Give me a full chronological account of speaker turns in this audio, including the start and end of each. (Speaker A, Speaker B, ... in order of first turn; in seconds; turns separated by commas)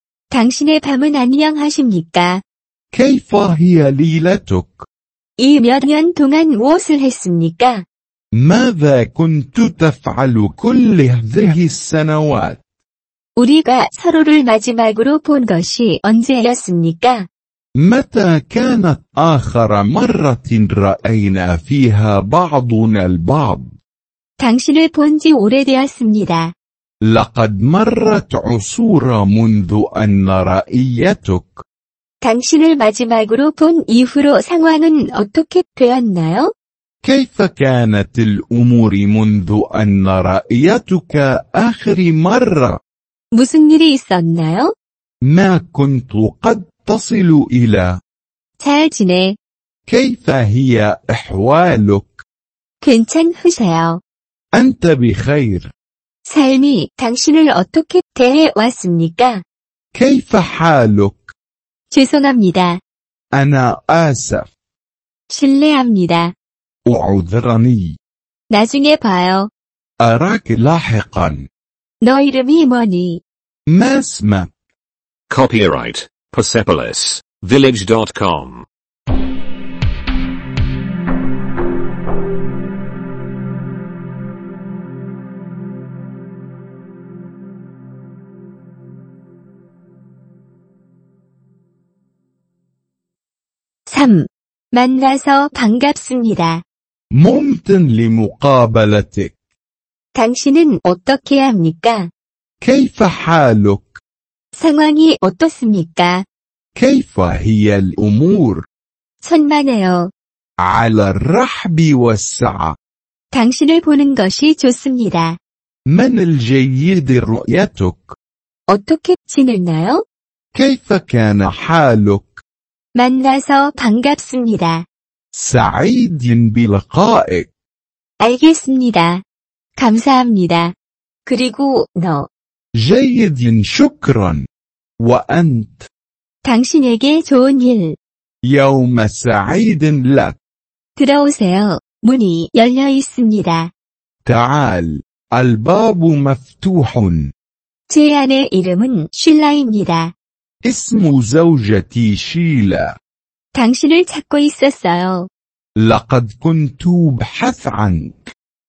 Speaker A: 0.3-2.4, Speaker B: 2.9-4.8, Speaker A: 5.4-7.8, Speaker B: 8.3-12.6, Speaker A: 13.4-17.3, Speaker B: 17.8-23.7, Speaker A: 24.4-26.5, Speaker B: 27.0-31.6, Speaker A: 32.2-36.5, Speaker B: 37.0-42.8, Speaker A: 43.3-44.7, Speaker B: 45.2-48.0, Speaker A: 48.6-49.4, Speaker B: 49.9-52.2, Speaker A: 52.8-54.0, Speaker B: 54.5-55.7, Speaker A: 56.3-59.4, Speaker B: 59.9-61.3, Speaker A: 61.9-62.8, Speaker B: 63.3-64.5, Speaker A: 65.3-66.3, Speaker B: 66.9-68.0, Speaker A: 68.5-69.5, Speaker B: 70.0-71.5, Speaker A: 72.0-73.2, Speaker B: 73.7-74.5, Speaker C: 75.3-78.7, Speaker A: 93.9-96.6, Speaker B: 97.1-99.3, Speaker A: 100.2-102.1, Speaker B: 102.6-103.9, Speaker A: 104.5-106.2, Speaker B: 106.7-108.6, Speaker A: 109.2-110.1, Speaker B: 110.6-112.7, Speaker A: 113.3-115.4, Speaker B: 115.9-118.1, Speaker A: 118.7-120.0, Speaker B: 120.5-122.4, Speaker A: 123.0-124.8, Speaker B: 125.3-127.5, Speaker A: 128.2-129.2, Speaker A: 129.8-130.7, Speaker A: 131.2-132.3, Speaker B: 132.8-134.4, Speaker B: 135.0-135.9, Speaker A: 136.4-137.9, Speaker B: 138.4-140.3, Speaker A: 141.0-143.7, Speaker B: 144.2-147.3, Speaker A: 147.9-150.1, Speaker B: 150.6-152.9, Speaker A: 153.5-155.3, Speaker B: 155.8-158.1